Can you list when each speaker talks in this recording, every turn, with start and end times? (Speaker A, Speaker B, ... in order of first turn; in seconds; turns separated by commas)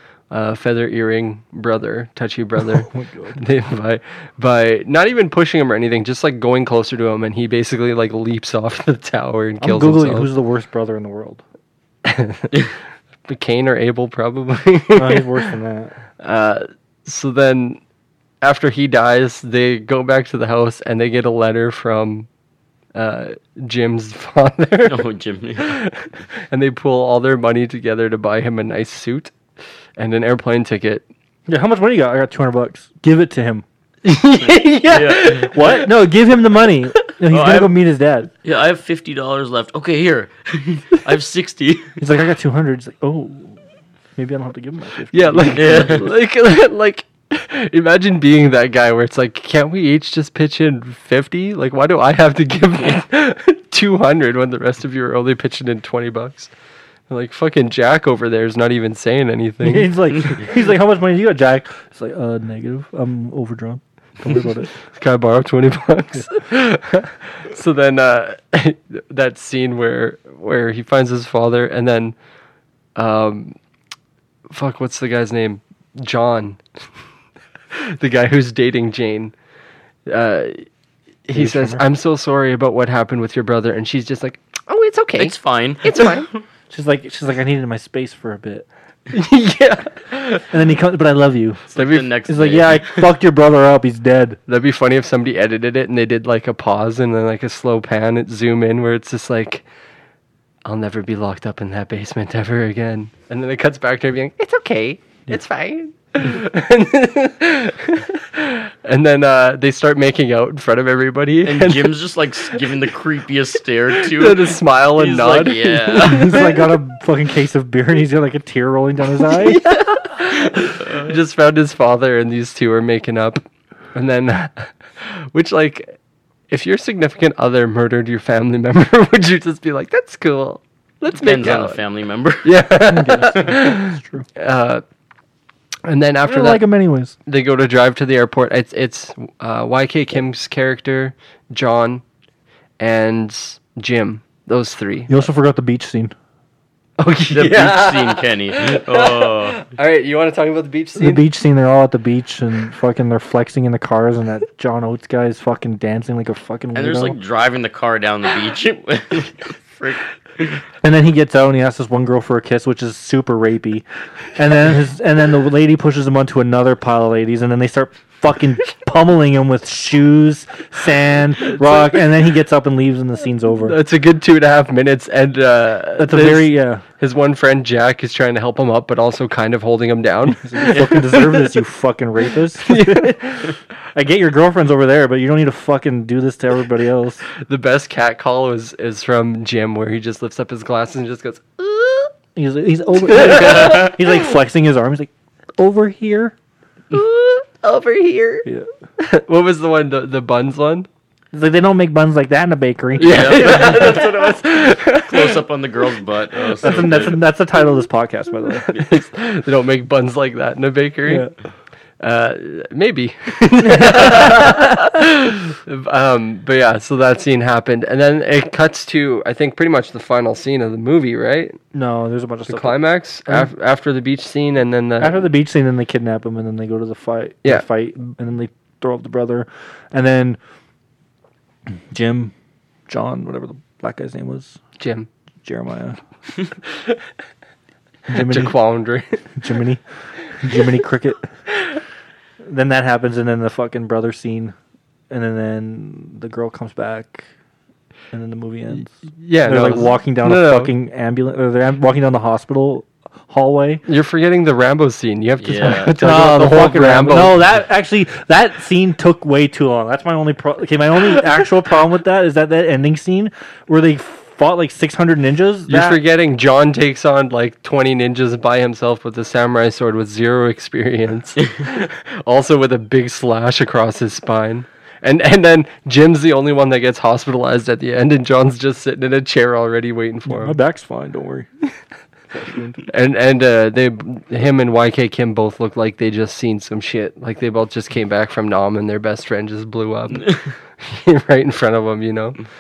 Speaker A: 0.3-10.3, Speaker B: 2.6-3.4, Speaker B: 9.6-11.4, Speaker A: 12.1-12.6, Speaker A: 13.3-15.4, Speaker B: 14.9-16.0, Speaker A: 16.2-17.8, Speaker A: 18.4-22.3, Speaker A: 22.9-25.0, Speaker C: 24.9-25.8, Speaker A: 25.6-29.3, Speaker A: 30.0-31.1, Speaker B: 31.5-33.6, Speaker A: 34.0-35.9, Speaker C: 34.9-35.5, Speaker B: 35.3-38.3, Speaker C: 37.3-37.7, Speaker C: 38.4-42.0, Speaker B: 42.0-43.6, Speaker B: 44.2-46.1, Speaker A: 45.1-56.5, Speaker C: 45.5-46.1, Speaker A: 57.1-60.4, Speaker B: 59.6-64.7, Speaker A: 64.9-72.2, Speaker A: 73.0-73.5, Speaker A: 74.5-76.6, Speaker A: 77.7-79.3, Speaker A: 80.1-80.7, Speaker A: 81.3-86.3, Speaker B: 81.3-81.8, Speaker C: 85.2-86.2, Speaker B: 86.7-88.7, Speaker A: 89.1-90.5, Speaker B: 90.5-91.6, Speaker A: 91.7-92.1, Speaker C: 91.7-93.1, Speaker B: 92.2-94.4, Speaker A: 94.5-99.7, Speaker A: 100.7-112.0, Speaker C: 111.5-116.5, Speaker A: 114.0-116.6, Speaker B: 116.1-119.6, Speaker A: 119.3-123.4, Speaker A: 123.9-126.0, Speaker A: 126.5-131.8, Speaker C: 131.1-132.6, Speaker A: 132.4-134.8, Speaker B: 132.9-134.3, Speaker A: 135.9-136.7, Speaker B: 136.3-137.2, Speaker A: 137.2-142.0, Speaker A: 142.8-145.2, Speaker B: 145.1-146.2, Speaker A: 147.0-151.2, Speaker C: 147.3-149.6, Speaker B: 151.0-157.2, Speaker C: 156.8-160.6, Speaker B: 160.8-173.8, Speaker A: 173.6-181.4, Speaker B: 176.0-176.8, Speaker B: 180.4-187.2, Speaker A: 182.7-183.5, Speaker A: 187.4-192.1, Speaker B: 192.4-196.3, Speaker A: 193.1-194.0, Speaker A: 196.9-198.5, Speaker A: 199.0-200.9, Speaker B: 201.3-204.1, Speaker A: 203.0-205.4, Speaker C: 203.0-207.2, Speaker A: 206.5-207.1, Speaker B: 206.6-208.7, Speaker A: 208.7-211.3, Speaker B: 211.1-211.3, Speaker A: 212.0-221.6, Speaker B: 213.6-214.8, Speaker B: 221.7-223.5, Speaker A: 222.5-225.3, Speaker B: 225.0-230.4, Speaker B: 231.7-232.3, Speaker B: 232.9-234.6, Speaker A: 234.8-235.1, Speaker B: 235.4-236.0, Speaker B: 238.1-238.6, Speaker A: 238.1-239.3, Speaker B: 239.4-241.3, Speaker B: 242.4-244.6, Speaker B: 245.1-247.3, Speaker B: 248.1-253.8, Speaker A: 249.2-250.7, Speaker A: 253.9-257.4, Speaker C: 255.4-255.9, Speaker B: 255.7-266.0, Speaker A: 265.7-280.6, Speaker B: 280.3-281.5, Speaker B: 282.3-282.8, Speaker A: 282.9-292.4